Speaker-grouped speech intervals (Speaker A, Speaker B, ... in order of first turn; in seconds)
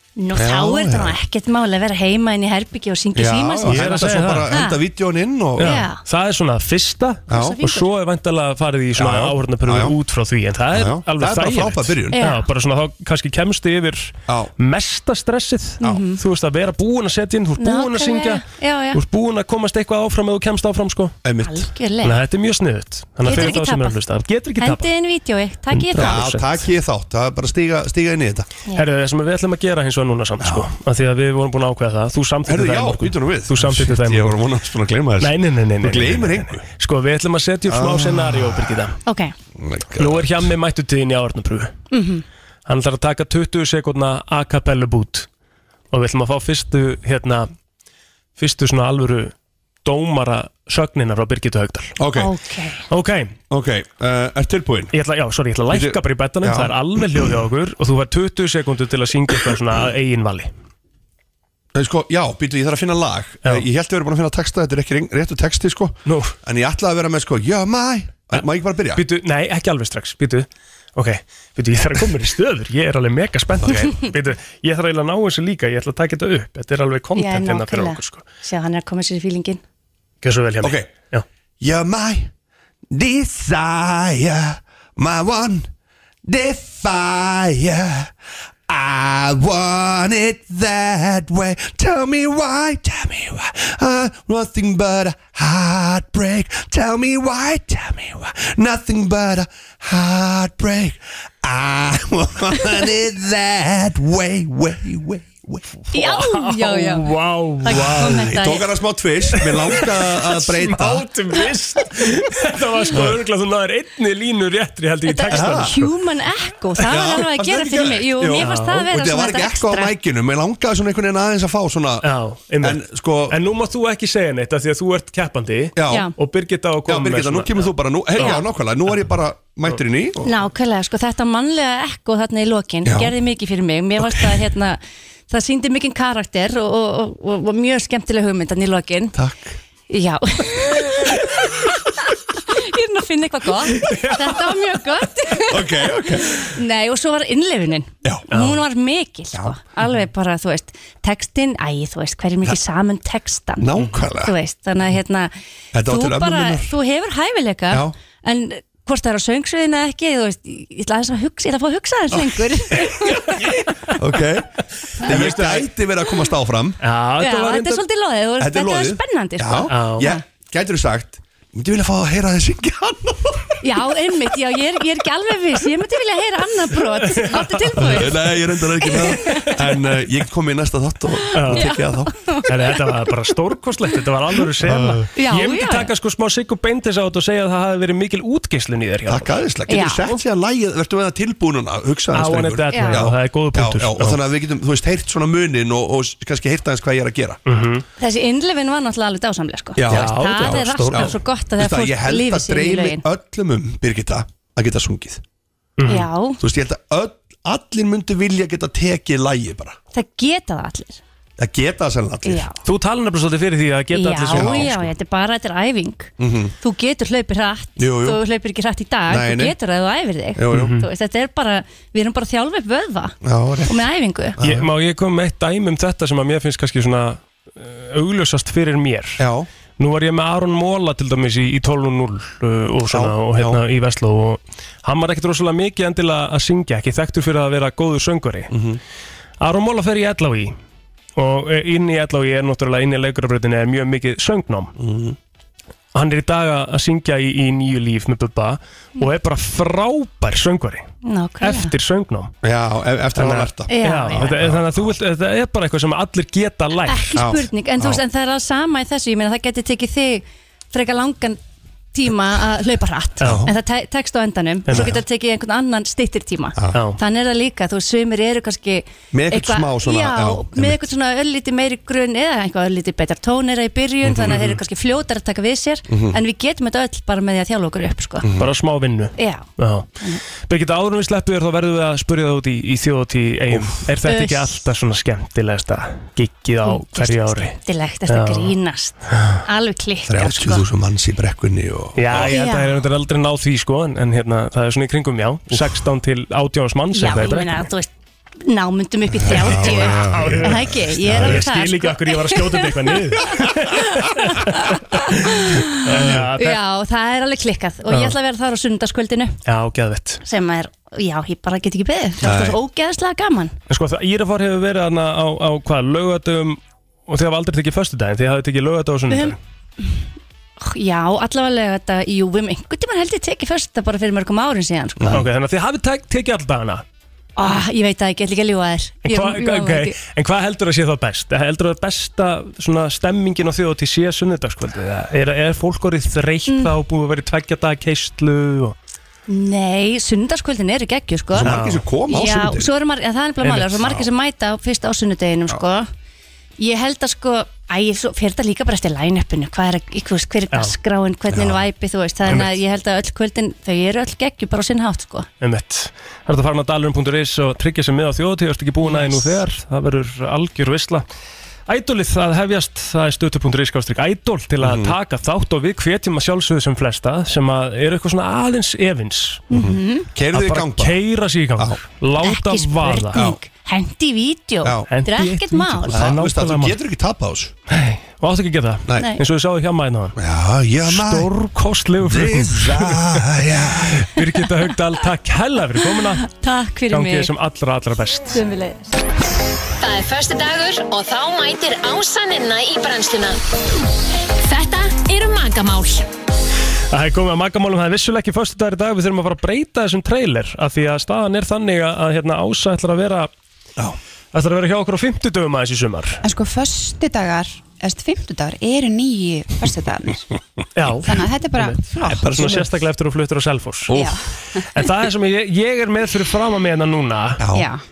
Speaker A: 0.2-4.8, 5.6-6.0, 7.3-7.9, 12.1-12.5, 15.8-16.2, 17.6-19.0, 21.4-22.2, 23.2-24.0, 24.6-26.3, 39.1-39.3, 41.9-42.2, 52.1-52.9, 77.2-79.6, 105.9-108.7, 115.0-119.9, 125.9-126.1, 128.2-128.4, 130.2-134.8, 135.3-139.2, 139.9-141.8, 142.4-163.7, 165.1-165.4, 167.2-170.2, 173.6-179.7, 181.5-183.3, 185.2-185.9, 189.7-190.2, 192.7-193.1, 198.0-203.1, 205.8-206.4, 209.9-211.0, 212.2-212.6, 213.9-224.4, 251.0-251.7, 253.7-254.4, 256.9-261.4, 261.9-278.3, 279.2-279.5, 284.0-284.6, 286.6-290.7, 292.1-292.9, 296.9-297.9, 298.4-309.4, 310.2-313.5, 319.1-319.9, 320.6-325.2, 327.4-330.0, 336.5-336.8, 339.3-345.9, 346.6-355.3, 358.8-359.4, 369.5-370.1, 372.2-376.0, 379.0-379.2, 385.8-387.3, 388.3-389.0
Speaker B: 0.4-1.2, 3.2-5.8, 7.3-7.6, 9.0-10.0, 10.7-12.2, 21.2-21.7, 26.0-28.5, 30.4-30.7, 32.5-36.6, 37.7-38.9, 39.5-40.5, 52.0-52.3, 53.5-54.9, 55.7-57.3, 61.7-69.0, 80.6-80.9, 81.6-82.3, 82.9-85.7, 86.2-88.1, 88.7-105.7, 107.7-111.1, 115.3-115.7, 116.9-122.1, 122.6-123.4, 125.8-126.1, 126.9-130.3, 132.8-133.1, 134.0-134.4, 139.2-139.6, 145.5-146.5, 153.6-154.3, 155.7-156.7, 162.2-162.9, 163.9-166.8, 168.4-173.8, 177.8-182.1, 184.6-185.1, 189.1-197.4, 199.8-205.2, 206.4-209.8, 211.4-212.5, 214.3-214.8, 216.2-216.5, 217.8-218.2, 219.1-219.6, 220.4-220.7, 223.2-223.8, 224.4-224.7, 229.2-229.5, 232.9-233.6, 238.5-238.8, 244.8-245.2, 252.4-255.0, 257.2-258.0, 263.2-263.5, 269.1-270.9, 274.0-274.5, 275.9-276.2, 278.2-278.5, 283.5-283.8, 290.1-292.3, 299.2-301.4, 305.9-306.3, 312.2-312.6, 325.0-325.2, 341.3-342.7, 351.3-351.6, 364.6-365.0, 369.5-371.0, 375.9-377.5, 380.2-381.3, 382.0-384.1, 411.8-412.7, 413.9-414.2, 417.4-417.7
Speaker C: 3.7-4.6, 5.6-21.2, 22.0-24.9, 25.7-26.7, 28.8-34.4, 35.2-39.0, 40.0-41.8, 42.7-45.3, 45.9-47.5, 48.4-49.3, 49.8-52.0, 52.9-53.3, 54.9-60.5, 66.1-66.3, 68.9-78.2, 80.2-81.2, 105.9-108.3, 109.3-115.9, 118.4-118.8, 122.0-128.4, 143.7-144.4, 148.3-148.6, 163.1-163.7, 165.0-165.7, 166.8-167.8, 169.7-170.1, 177.0-178.1, 178.9-179.6, 181.3-181.8, 182.5-189.4, 192.1-194.2, 197.5-197.8, 199.8-201.2, 205.8-206.1, 212.6-214.9, 220.5-220.9, 224.4-229.2, 229.8-238.5, 239.4-240.6, 241.2-244.8, 245.9-250.9, 251.4-252.3, 253.2-257.3, 263.2-263.5, 264.7-265.0, 266.7-267.0, 278.4-279.9, 280.4-287.6, 288.1-288.5, 292.0-297.6, 299.3-306.6, 307.9-308.1, 309.5-310.2, 313.7-319.4, 325.1-326.8, 329.1-338.8, 341.4-341.8, 343.4-344.0, 352.3-352.6, 355.4-361.0, 361.7-369.4, 370.3-373.3, 374.9-376.8, 377.7-380.2, 380.8-383.3, 383.9-386.2, 386.9-388.4, 396.9-403.3, 404.3-406.2, 410.8-414.0, 414.6-417.4
Speaker D: 389.8-393.4, 394.4-396.1
Speaker E: 406.2-410.3, 411.0-412.3, 413.9-414.6, 417.5-417.8